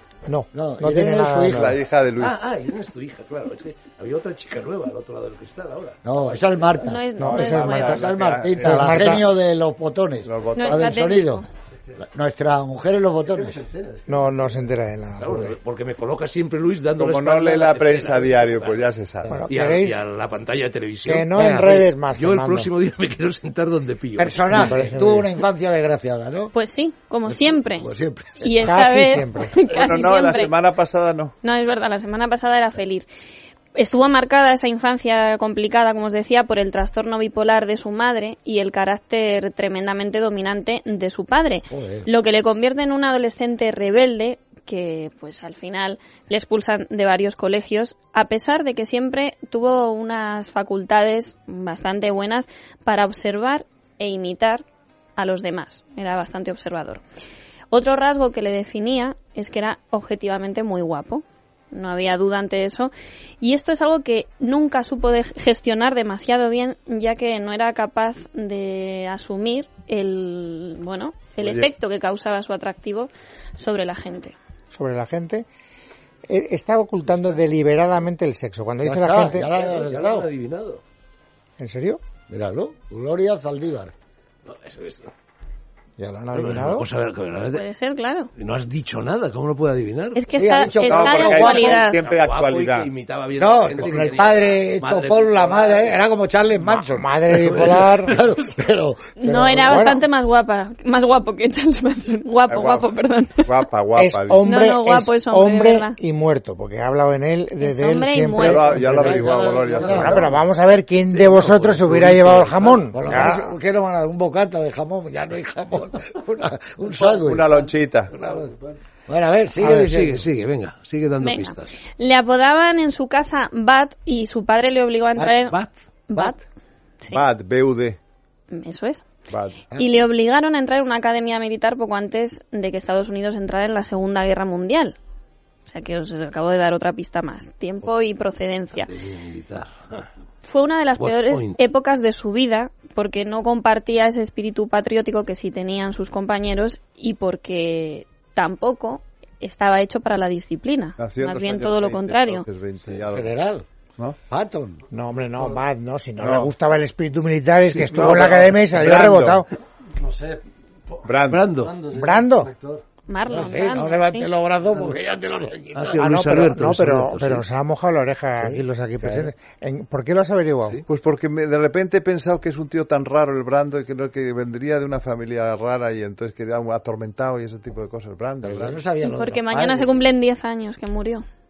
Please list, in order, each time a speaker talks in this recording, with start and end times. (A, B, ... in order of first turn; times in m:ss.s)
0:00.3-0:01.7 A
0:00.5-0:01.8 B
0:01.5-0:02.4 C
0:02.2-0:06.7 D
0:06.0-0:07.0 B
0:06.8-0:08.1 E
0:07.2-0:08.0 A
0:07.2-0:09.2 C
0:07.9-0:11.4 B
0:08.6-0:09.3 A
0:10.2-0:10.9 C
0:10.6-0:11.5 E
0:12.0-0:13.7 B
0:14.1-0:15.6 A
0:15.2-0:18.9 D
0:17.0-0:19.5 C
0:19.3-0:20.0 A
0:19.5-0:24.8 D
0:21.0-0:22.7 A
0:21.3-0:21.8 B
0:24.2-0:26.5 B
0:24.5-0:25.3 A
0:26.5-0:27.9 E
0:27.3-0:28.7 B
0:28.4-0:30.5 E
0:28.6-0:29.6 A
0:29.7-0:31.3 C
0:31.4-0:33.1 E
0:33.8-0:54.6 E
0:41.7-0:42.1 B
0:55.2-0:57.0 E
0:57.7-1:14.4 E
1:11.4-1:11.7 C
1:14.7-1:15.5 A
1:16.3-1:19.5 A
1:18.8-1:20.3 B
1:19.5-1:20.8 D
1:21.6-1:22.0 A
1:22.3-1:23.9 B
1:24.5-1:25.1 D
1:26.0-1:26.9 A
1:26.3-1:27.6 D
1:27.5-1:28.3 E
1:28.4-1:30.8 D
1:30.1-1:32.0 E
1:30.4-1:32.0 B
1:30.8-1:32.9 C
1:31.8-1:36.0 D
1:33.4-1:39.8 B
1:36.6-1:38.2 A
1:39.2-1:43.6 E
1:39.6-1:40.0 A
1:42.5-1:44.4 C
1:44.0-1:49.2 A
1:44.4-1:46.0 E
1:47.6-1:49.3 E
1:48.4-1:50.3 C
1:48.7-1:50.3 B
1:49.8-1:50.2 D
1:49.8-1:53.5 A
1:51.1-1:52.8 D
1:52.9-1:57.6 B
1:56.9-1:58.2 C
1:58.1-1:58.6 B
1:59.1-2:00.3 B
1:59.6-2:01.8 D
2:01.2-2:05.6 E
2:05.5-2:05.8 D
2:06.1-2:06.4 E
2:07.1-2:08.0 C
2:08.5-2:09.0 E
2:09.3-2:09.6 C
2:09.7-2:10.0 B
2:09.8-2:15.0 E
2:15.7-2:18.9 E
2:18.8-2:20.1 D
2:20.4-2:32.5 E
2:21.0-2:21.6 D
2:31.0-2:33.4 C
2:32.8-2:33.7 B
2:34.3-2:34.8 B
2:34.9-2:39.5 A
2:36.2-2:36.5 C
2:37.7-2:39.4 C
2:40.0-2:42.8 F
2:41.0-2:41.5 C
2:41.3-2:41.8 D
2:41.9-2:42.5 A
2:43.1-2:44.3 E
2:43.2-2:46.0 B
2:45.7-2:47.5 D
2:46.0-2:50.8 A
2:48.4-2:49.3 B
2:50.9-2:58.8 C
2:58.4-2:59.9 B
2:59.0-3:01.2 E